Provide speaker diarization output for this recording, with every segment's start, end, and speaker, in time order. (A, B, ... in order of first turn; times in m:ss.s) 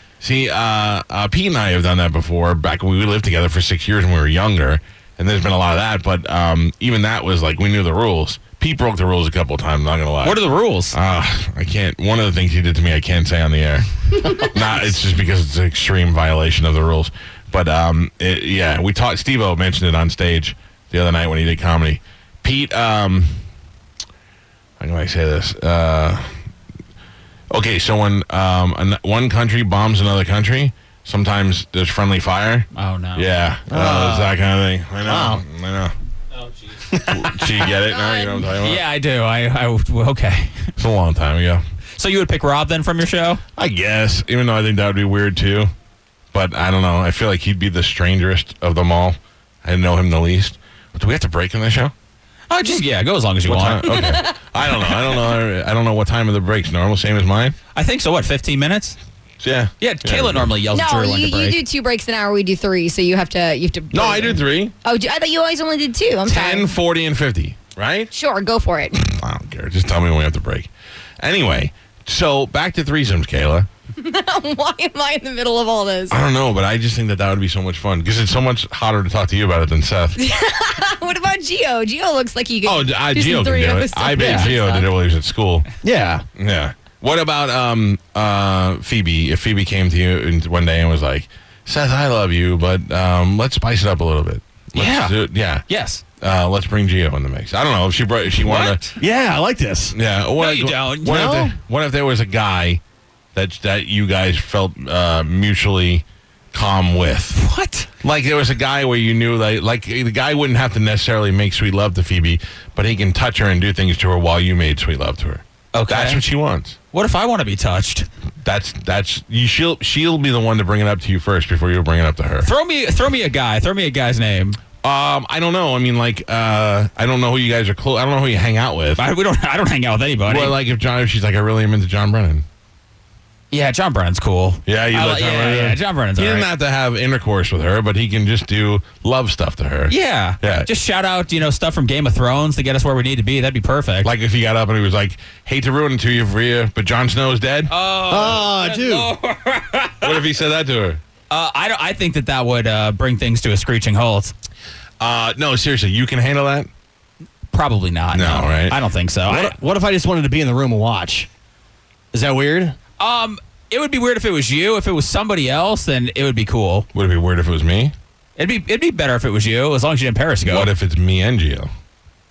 0:00.2-0:10.4 A
0:10.2-0:11.0 B
0:10.9-0:23.4 A
0:24.8-0:26.4 A
0:27.5-0:35.9 A
0:32.7-0:33.2 B
0:33.7-0:34.4 C
0:35.0-0:35.4 C
0:36.7-0:37.1 B
0:37.0-0:38.8 A
0:38.0-0:38.4 D
0:38.6-0:40.7 B
0:40.8-0:41.6 A
0:42.0-0:43.4 B
0:43.6-0:45.7 A
0:46.3-0:51.9 A
0:52.5-0:54.2 B
0:53.4-0:57.5 A
0:53.9-0:55.4 D
0:57.7-0:59.0 B
0:59.4-1:00.5 A
0:59.8-1:01.6 B
1:00.7-1:06.7 D
1:03.9-1:04.7 A
1:06.2-1:08.1 A
1:08.1-1:09.0 D
1:09.0-1:13.7 A
1:14.0-1:16.2 D
1:16.1-1:20.2 A
1:20.2-1:24.9 D
1:22.6-1:25.7 A
1:24.2-1:24.5 C
1:25.8-1:26.2 C
1:26.4-1:35.6 A
1:34.8-1:36.0 B
1:36.2-1:38.9 A
1:38.4-1:39.0 B
1:39.0-1:40.0 C
1:39.9-1:42.8 A
1:40.4-1:41.4 B
1:41.1-1:41.5 C
1:43.3-1:47.4 A
1:47.3-1:47.9 B
1:48.0-1:56.8 A
1:55.7-1:56.2 B
1:56.9-1:58.1 B
1:58.4-2:02.5 A
2:02.4-2:04.6 B
2:04.8-2:09.0 A
2:09.0-2:10.6 B
2:10.2-2:12.4 A
2:13.5-2:16.5 B
2:14.6-2:20.7 A
2:19.9-2:24.1 B
2:24.0-2:27.7 A
2:27.7-2:30.3 B
2:28.1-2:29.1 C
2:30.0-2:31.0 A
2:31.3-2:34.3 B
2:35.0-2:36.7 A
2:37.5-2:39.5 B
2:38.1-2:38.8 A
2:39.3-2:41.3 C
2:42.1-2:42.8 C
2:43.0-2:46.8 B
2:46.9-2:47.9 A
2:48.4-2:50.7 B
2:50.4-2:51.7 A